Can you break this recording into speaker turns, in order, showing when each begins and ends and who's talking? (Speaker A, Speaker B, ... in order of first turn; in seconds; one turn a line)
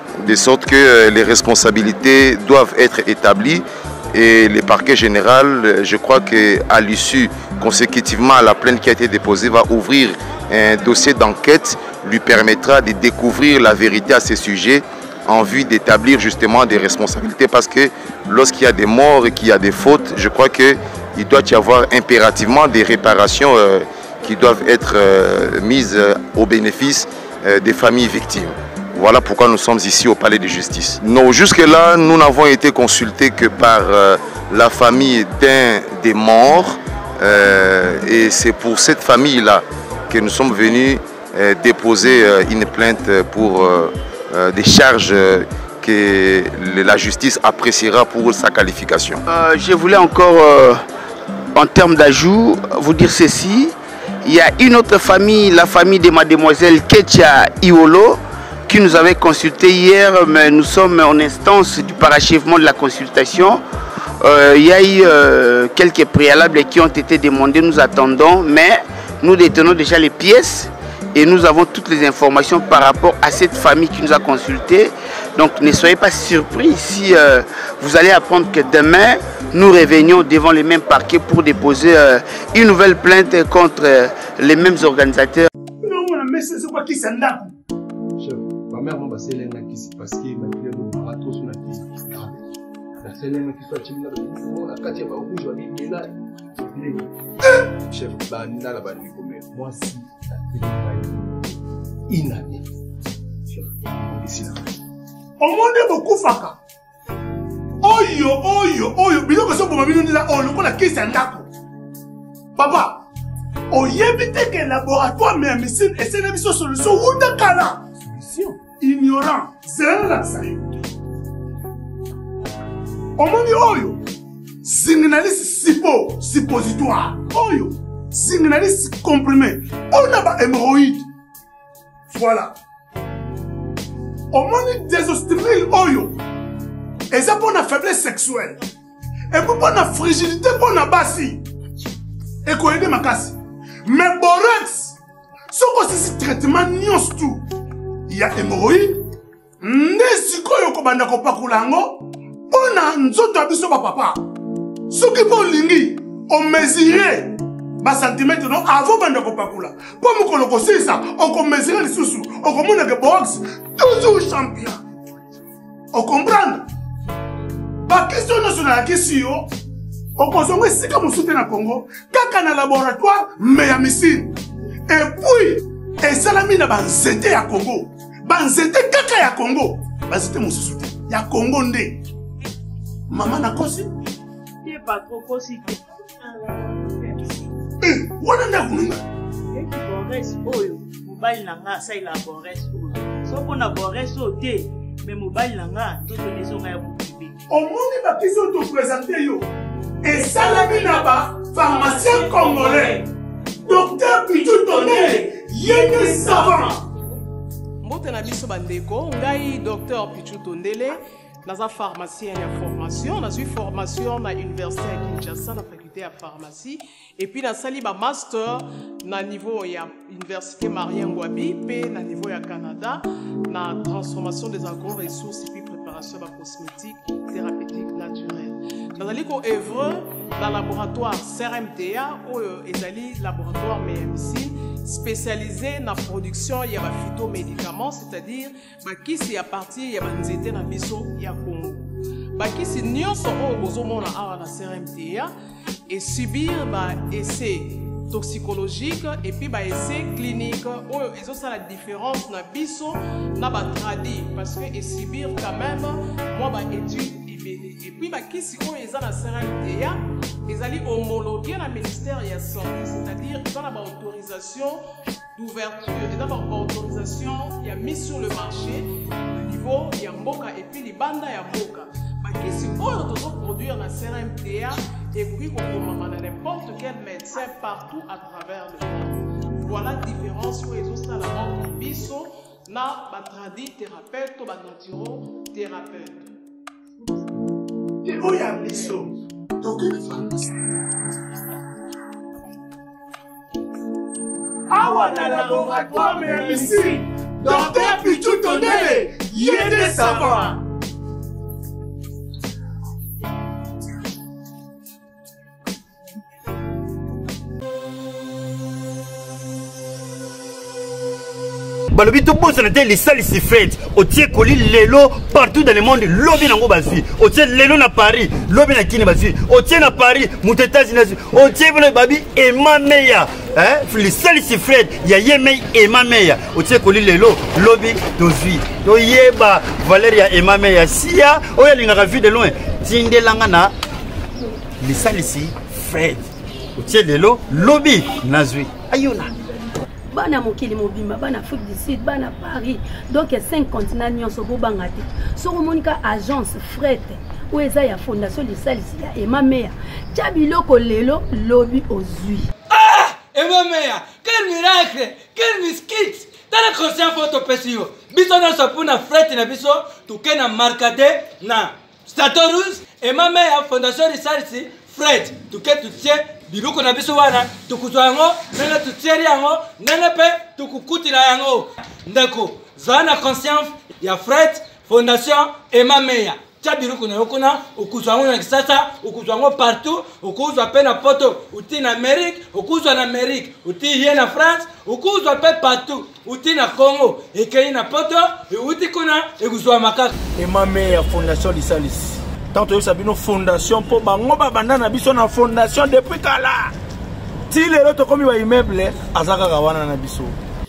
Speaker A: 0.2-49.2
Speaker B: 49.3-50.8
Speaker B: 51.5-63.6
Speaker B: 64.2-85.5
Speaker C: 85.8-87.5
Speaker D: 88.2-92.4
Speaker D: 93.0-97.1
Speaker D: 97.9-101.5
Speaker D: 102.1-102.6
Speaker D: 103.5-104.7
Speaker C: 105.4-106.6
Speaker C: 107.8-111.5
Speaker C: 112.5-113.0
Speaker C: 113.7-117.9
Speaker D: 118.1-118.5
Speaker C: 118.5-120.6
Speaker C: 123.2-124.0
Speaker C: 124.6-131.1
Speaker C: 132.1-132.6
Speaker C: 134.3-136.2
Speaker C: 137.1-138.6
Speaker C: 139.3-141.4
Speaker C: 142.4-145.0
Speaker C: 145.5-147.4
Speaker C: 148.1-149.0
Speaker C: 149.6-154.2
Speaker C: 154.9-164.8
Speaker C: 165.9-166.7
Speaker C: 167.9-169.5
Speaker C: 170.2-174.3
Speaker C: 174.9-182.0
Speaker C: 183.1-183.9
Speaker E: 184.6-187.4
Speaker C: 187.8-189.0
Speaker E: 189.5-197.4
Speaker C: 197.5-199.5
Speaker C: 200.0-203.0
Speaker E: 200.1-203.1
Speaker C: 203.7-206.8
Speaker E: 203.7-206.8
Speaker F: 207.8-245.3
Speaker F: 245.9-264.8
Speaker F: 265.4-286.3
Speaker C: 288.0-290.5
Speaker C: 294.7-300.6
Speaker E: 294.8-300.6
Speaker G: 311.9-333.7
Speaker G: 334.8-339.3
Speaker H: 340.1-352.5
Speaker I: 352.7-390.1
Speaker J: 390.4-396.7
Speaker J: 397.5-400.4